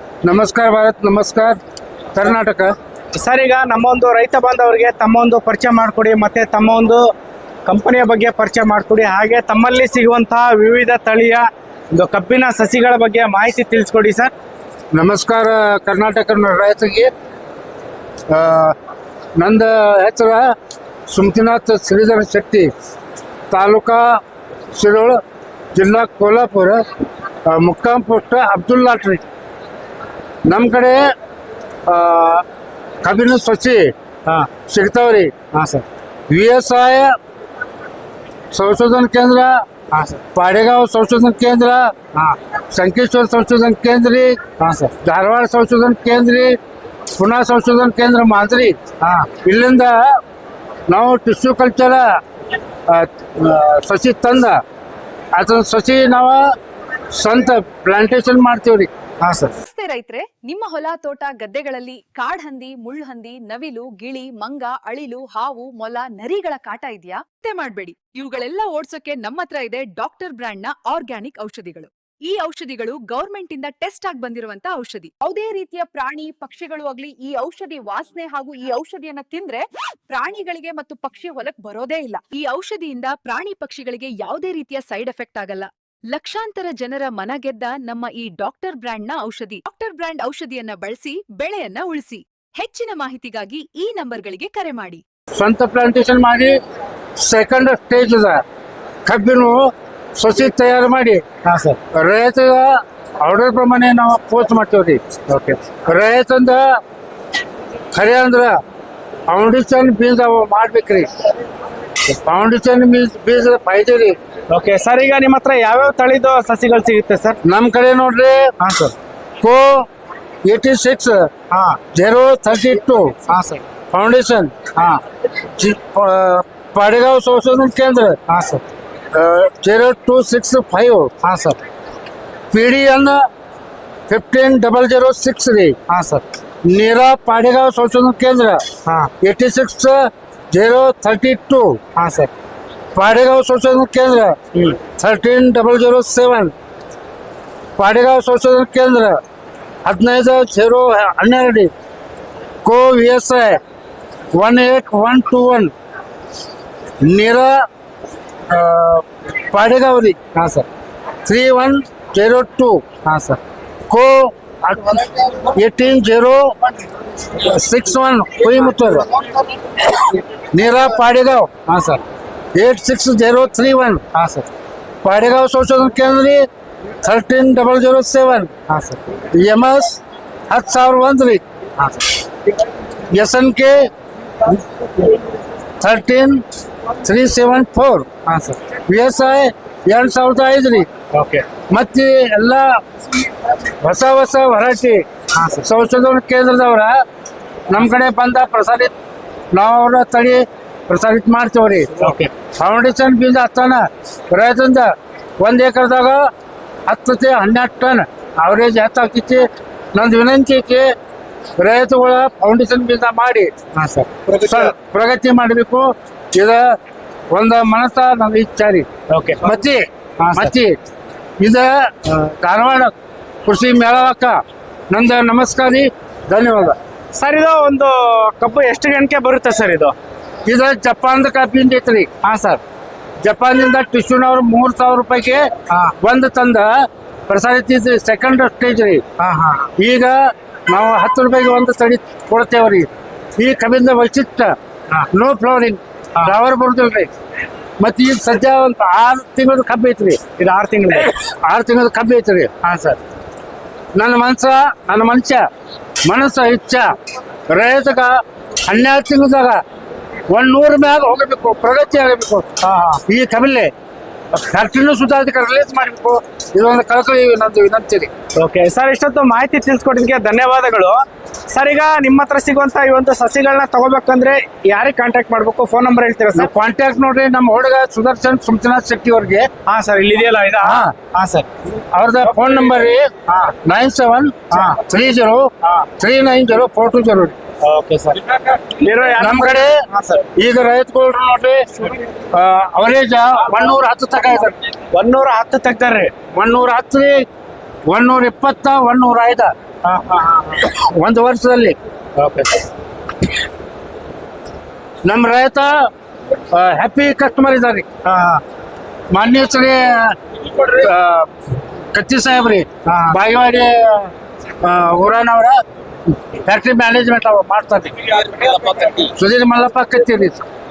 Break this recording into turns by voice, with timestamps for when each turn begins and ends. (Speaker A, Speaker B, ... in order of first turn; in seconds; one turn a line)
Speaker A: 0.2-1.6
Speaker A: 2.1-2.7
Speaker B: 3.1-7.1
Speaker B: 7.7-14.3
Speaker A: 14.9-17.1
Speaker A: 18.3-18.8
Speaker A: 19.4-20.5
Speaker A: 21.1-22.7
Speaker A: 23.5-24.2
Speaker A: 24.7-25.2
Speaker A: 25.7-26.8
Speaker A: 27.4-29.2
Speaker A: 30.4-31.0
Speaker A: 31.9-32.5
Speaker A: 33.0-33.9
Speaker A: 34.7-35.3
Speaker B: 35.5-35.8
Speaker A: 36.3-37.1
Speaker A: 38.5-39.6
Speaker B: 39.9-40.2
Speaker A: 40.3-41.9
Speaker A: 42.7-44.4
Speaker B: 44.6-44.9
Speaker A: 45.0-46.6
Speaker A: 47.2-48.8
Speaker B: 49.0-49.3
Speaker A: 49.4-50.2
Speaker A: 50.9-52.0
Speaker A: 52.9-54.6
Speaker A: 55.4-56.5
Speaker A: 57.1-58.9
Speaker B: 59.2-59.6
Speaker C: 59.6-95.0
Speaker A: 95.3-96.6
Speaker A: 97.2-98.4
Speaker A: 99.0-101.2
Speaker B: 101.4-101.8
Speaker A: 101.9-105.0
Speaker B: 105.3-105.6
Speaker A: 105.8-106.6
Speaker A: 107.9-108.6
Speaker A: 109.3-111.1
Speaker A: 112.1-114.2
Speaker B: 114.5-117.4
Speaker A: 117.4-118.5
Speaker B: 118.6-118.9
Speaker A: 119.4-119.9
Speaker A: 120.4-121.3
Speaker B: 121.5-121.8
Speaker A: 121.9-123.2
Speaker B: 123.2-123.6
Speaker A: 123.9-124.5
Speaker B: 124.7-125.0
Speaker A: 125.6-128.2
Speaker B: 128.3-128.6
Speaker A: 129.1-131.1
Speaker B: 131.2-131.6
Speaker A: 132.5-133.2
Speaker A: 134.1-135.8
Speaker B: 135.9-136.2
Speaker A: 136.7-138.6
Speaker B: 138.8-139.1
Speaker A: 139.2-141.8
Speaker B: 142.0-142.3
Speaker A: 142.9-146.5
Speaker A: 147.8-149.2
Speaker A: 149.8-151.7
Speaker A: 152.6-153.6
Speaker A: 154.3-155.7
Speaker A: 157.0-157.7
Speaker A: 158.5-160.2
Speaker B: 160.3-160.7
Speaker A: 161.2-162.8
Speaker B: 163.1-163.4
Speaker A: 163.9-166.6
Speaker A: 167.3-169.2
Speaker A: 169.8-171.5
Speaker B: 171.7-172.0
Speaker A: 172.6-174.0
Speaker B: 174.1-174.5
Speaker A: 175.0-176.4
Speaker A: 177.0-178.5
Speaker B: 178.7-179.0
Speaker A: 179.3-181.4
Speaker B: 181.8-182.1
Speaker A: 183.1-183.9
Speaker A: 184.4-185.1
Speaker A: 185.8-186.4
Speaker A: 187.0-188.1
Speaker B: 188.2-188.6
Speaker A: 188.9-190.9
Speaker B: 191.1-191.5
Speaker A: 191.7-192.8
Speaker A: 193.8-195.1
Speaker B: 195.3-195.7
Speaker A: 195.6-197.0
Speaker A: 197.7-198.9
Speaker A: 199.5-206.2
Speaker B: 202.0-202.3
Speaker A: 206.9-210.9
Speaker A: 211.6-213.5
Speaker B: 213.8-214.7
Speaker A: 214.4-216.8
Speaker A: 217.3-218.9
Speaker B: 219.1-219.5
Speaker A: 219.4-220.8
Speaker B: 220.2-220.5
Speaker A: 221.4-222.9
Speaker A: 223.4-224.4
Speaker A: 224.9-226.8
Speaker B: 227.1-229.9
Speaker A: 230.5-232.1
Speaker B: 232.2-232.6
Speaker A: 233.2-235.5
Speaker B: 235.7-236.0
Speaker A: 236.0-236.7
Speaker A: 237.3-239.0
Speaker B: 239.2-239.7
Speaker A: 239.8-240.2
Speaker A: 240.7-244.5
Speaker A: 245.1-247.1
Speaker A: 247.8-250.2
Speaker B: 250.4-251.1
Speaker A: 251.2-252.5
Speaker B: 252.6-253.0
Speaker A: 253.9-255.4
Speaker A: 256.1-256.9
Speaker A: 257.5-259.6
Speaker A: 260.3-262.5
Speaker B: 262.6-263.0
Speaker A: 263.1-263.7
Speaker A: 264.3-268.1
Speaker B: 268.4-271.0
Speaker B: 271.5-276.5
Speaker A: 276.4-279.5
Speaker B: 279.7-281.5
Speaker A: 280.6-280.9
Speaker A: 281.9-283.1
Speaker B: 283.3-283.6
Speaker A: 283.6-287.4
Speaker B: 284.5-284.8
Speaker B: 287.6-290.2
Speaker A: 289.2-289.8
Speaker A: 290.4-294.6
Speaker B: 294.9-296.1
Speaker A: 296.3-297.2
Speaker A: 297.9-299.5
Speaker B: 299.9-300.7
Speaker A: 300.6-301.8
Speaker B: 302.2-302.6
Speaker A: 305.0-305.9
Speaker A: 306.5-307.9
Speaker B: 308.1-308.4
Speaker A: 309.1-311.3
Speaker A: 311.9-315.6
Speaker B: 312.9-313.2
Speaker A: 316.1-320.4